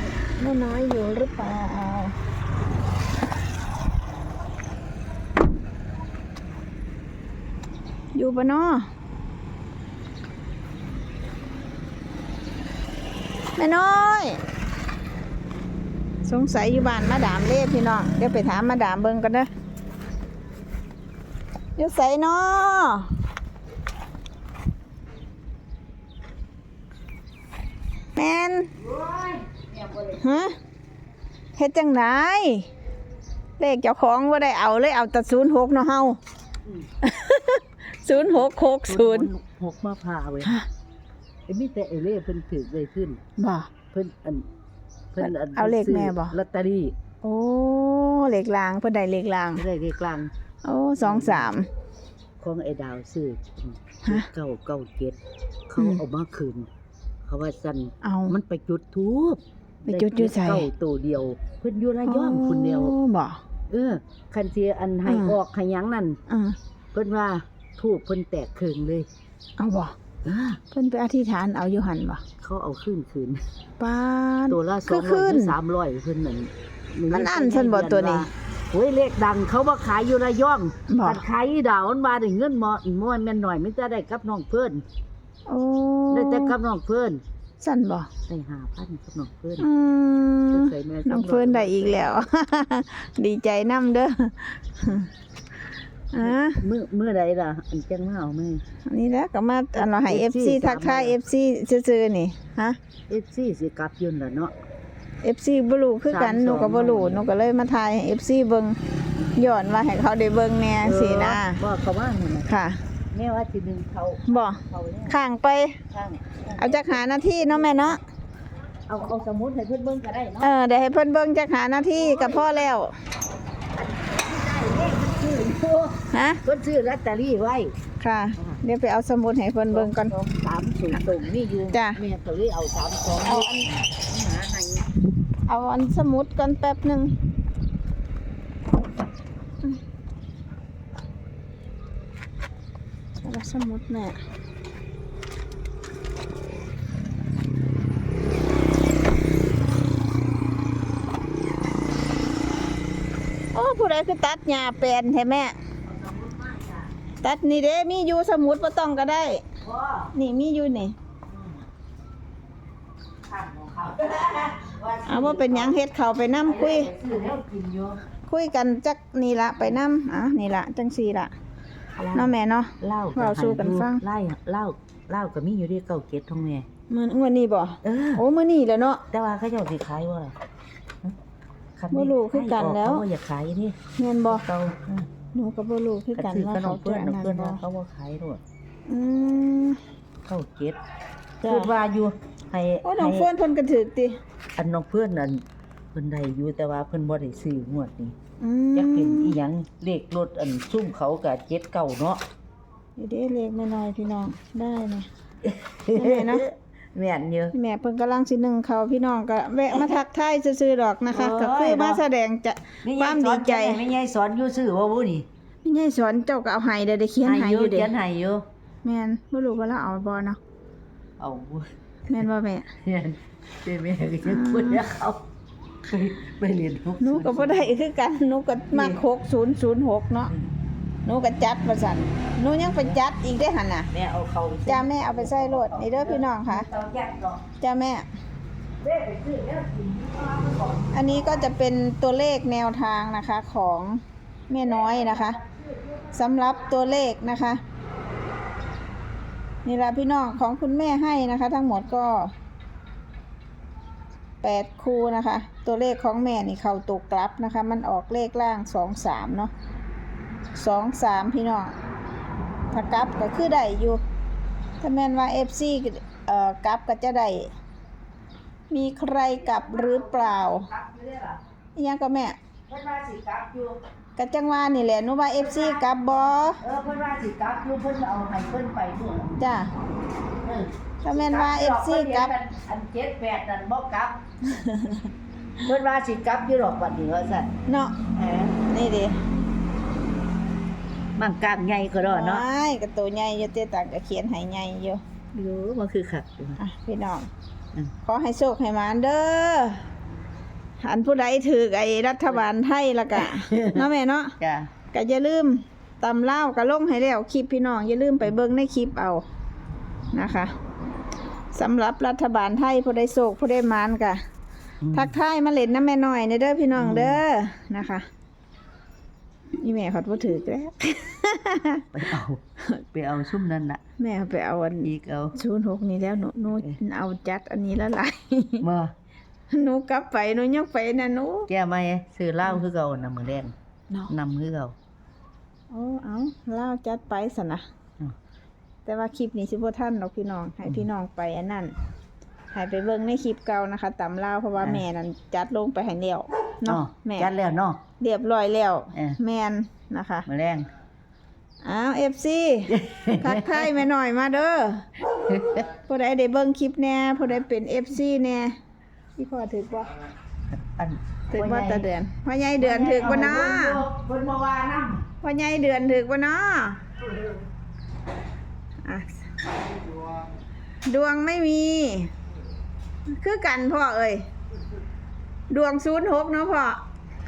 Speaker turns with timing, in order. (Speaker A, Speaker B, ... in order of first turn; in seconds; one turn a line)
Speaker A: 0.4-2.1
Speaker A: 8.2-8.9
Speaker A: 13.6-14.4
Speaker A: 16.2-19.5
Speaker A: 21.8-23.1
Speaker A: 28.2-28.7
Speaker B: 28.8-30.4
Speaker A: 30.2-30.6
Speaker A: 31.6-32.7
Speaker A: 33.6-36.2
Speaker A: 37.0-39.3
Speaker B: 38.1-40.6
Speaker B: 41.5-43.2
Speaker A: 43.4-43.7
Speaker B: 43.9-44.5
Speaker B: 45.1-46.9
Speaker A: 45.2-46.4
Speaker A: 47.2-49.6
Speaker B: 49.5-50.3
Speaker A: 50.6-51.7
Speaker B: 51.0-51.5
Speaker B: 52.4-55.2
Speaker B: 55.7-56.7
Speaker B: 57.2-63.0
Speaker A: 58.0-58.4
Speaker A: 59.9-60.7
Speaker A: 62.0-63.4
Speaker B: 63.7-66.2
Speaker A: 65.1-65.4
Speaker A: 66.3-66.6
Speaker B: 66.9-69.1
Speaker A: 69.6-70.0
Speaker B: 70.2-70.6
Speaker A: 70.7-72.2
Speaker B: 72.4-73.4
Speaker A: 73.8-75.6
Speaker B: 74.5-84.8
Speaker A: 77.1-78.3
Speaker A: 80.9-81.2
Speaker A: 85.5-86.5
Speaker B: 86.1-87.2
Speaker A: 87.6-88.1
Speaker B: 88.3-89.7
Speaker A: 89.6-95.1
Speaker B: 90.5-92.1
Speaker A: 96.1-96.6
Speaker B: 96.2-98.6
Speaker A: 98.9-102.8
Speaker B: 99.8-101.2
Speaker B: 103.1-104.5
Speaker A: 105.2-108.8
Speaker B: 106.1-107.3
Speaker A: 109.3-111.6
Speaker B: 110.8-112.5
Speaker A: 112.5-112.8
Speaker B: 113.1-115.2
Speaker A: 114.3-115.8
Speaker B: 115.9-118.0
Speaker A: 116.6-118.0
Speaker B: 118.9-120.5
Speaker A: 120.4-122.9
Speaker B: 121.9-122.7
Speaker B: 123.8-127.7
Speaker A: 126.1-126.4
Speaker A: 128.0-130.1
Speaker B: 129.7-134.9
Speaker A: 131.7-132.0
Speaker A: 133.2-133.7
Speaker A: 135.5-137.2
Speaker A: 143.2-144.2
Speaker A: 153.5-155.6
Speaker B: 155.9-156.9
Speaker A: 157.2-159.4
Speaker B: 159.6-160.1
Speaker A: 160.1-161.0
Speaker B: 161.3-161.6
Speaker B: 163.2-165.8
Speaker A: 165.1-166.9
Speaker B: 166.5-168.0
Speaker A: 168.3-171.3
Speaker B: 172.0-176.7
Speaker A: 172.1-174.0
Speaker A: 176.9-179.0
Speaker B: 177.8-178.2
Speaker B: 179.1-180.3
Speaker B: 181.8-185.0
Speaker A: 181.9-183.1
Speaker A: 184.0-184.4
Speaker A: 185.2-187.6
Speaker B: 186.2-188.4
Speaker A: 188.9-189.8
Speaker B: 190.2-190.8
Speaker B: 191.4-193.3
Speaker A: 191.4-191.7
Speaker A: 192.8-194.2
Speaker B: 194.6-195.4
Speaker B: 195.9-198.1
Speaker A: 198.4-199.4
Speaker B: 198.7-202.2
Speaker A: 203.0-205.1
Speaker B: 205.4-207.5
Speaker A: 205.9-206.4
Speaker A: 207.5-213.8
Speaker B: 211.1-212.0
Speaker B: 212.8-215.3
Speaker A: 215.6-217.9
Speaker B: 217.2-218.4
Speaker A: 218.8-220.4
Speaker B: 221.2-221.7
Speaker A: 222.1-222.7
Speaker B: 222.8-225.2
Speaker A: 224.2-224.8
Speaker B: 225.8-227.8
Speaker A: 227.0-230.3
Speaker B: 228.7-229.0
Speaker A: 231.1-233.9
Speaker B: 233.9-237.4
Speaker A: 234.7-236.7
Speaker A: 237.6-238.1
Speaker B: 238.8-241.5
Speaker A: 240.9-245.4
Speaker B: 244.6-246.9
Speaker A: 246.1-247.6
Speaker A: 249.7-252.3
Speaker A: 254.4-259.5
Speaker A: 260.6-261.8
Speaker A: 262.7-264.0
Speaker A: 264.8-267.5
Speaker A: 268.7-270.7
Speaker B: 269.3-271.4
Speaker A: 271.8-272.4
Speaker B: 272.7-273.8
Speaker A: 274.2-276.6
Speaker B: 275.4-275.9
Speaker B: 276.6-279.4
Speaker A: 279.4-279.7
Speaker B: 280.4-284.2
Speaker A: 281.0-282.3
Speaker A: 284.4-285.1
Speaker B: 285.6-287.5
Speaker A: 287.7-288.0
Speaker B: 288.1-288.6
Speaker A: 288.6-289.2
Speaker B: 291.2-292.5
Speaker A: 292.0-295.0
Speaker B: 295.3-296.6
Speaker A: 296.6-297.3
Speaker A: 298.1-299.8
Speaker A: 300.8-304.4
Speaker B: 303.1-303.9
Speaker B: 304.4-304.7
Speaker A: 304.9-309.2
Speaker A: 310.1-310.5
Speaker A: 311.5-314.2
Speaker B: 314.8-315.2
Speaker A: 314.9-318.1
Speaker B: 316.7-317.2
Speaker A: 319.6-321.9
Speaker B: 321.9-323.8
Speaker A: 324.0-328.6
Speaker B: 324.8-325.4
Speaker B: 328.6-328.9
Speaker A: 329.5-331.5
Speaker B: 331.5-333.5
Speaker B: 334.1-334.8
Speaker A: 335.7-337.6
Speaker A: 338.9-341.8
Speaker A: 342.5-347.3
Speaker B: 344.6-344.9
Speaker B: 346.6-347.8
Speaker A: 348.0-350.3
Speaker B: 348.9-349.2
Speaker B: 350.3-350.7
Speaker A: 351.6-354.9
Speaker B: 352.7-353.8
Speaker B: 355.1-355.7
Speaker A: 355.6-358.6
Speaker A: 359.2-360.0
Speaker B: 360.5-361.9
Speaker A: 361.3-363.8
Speaker B: 362.6-365.1
Speaker A: 365.2-366.8
Speaker A: 368.9-369.4
Speaker A: 370.9-372.1
Speaker A: 373.1-374.3
Speaker A: 375.5-376.8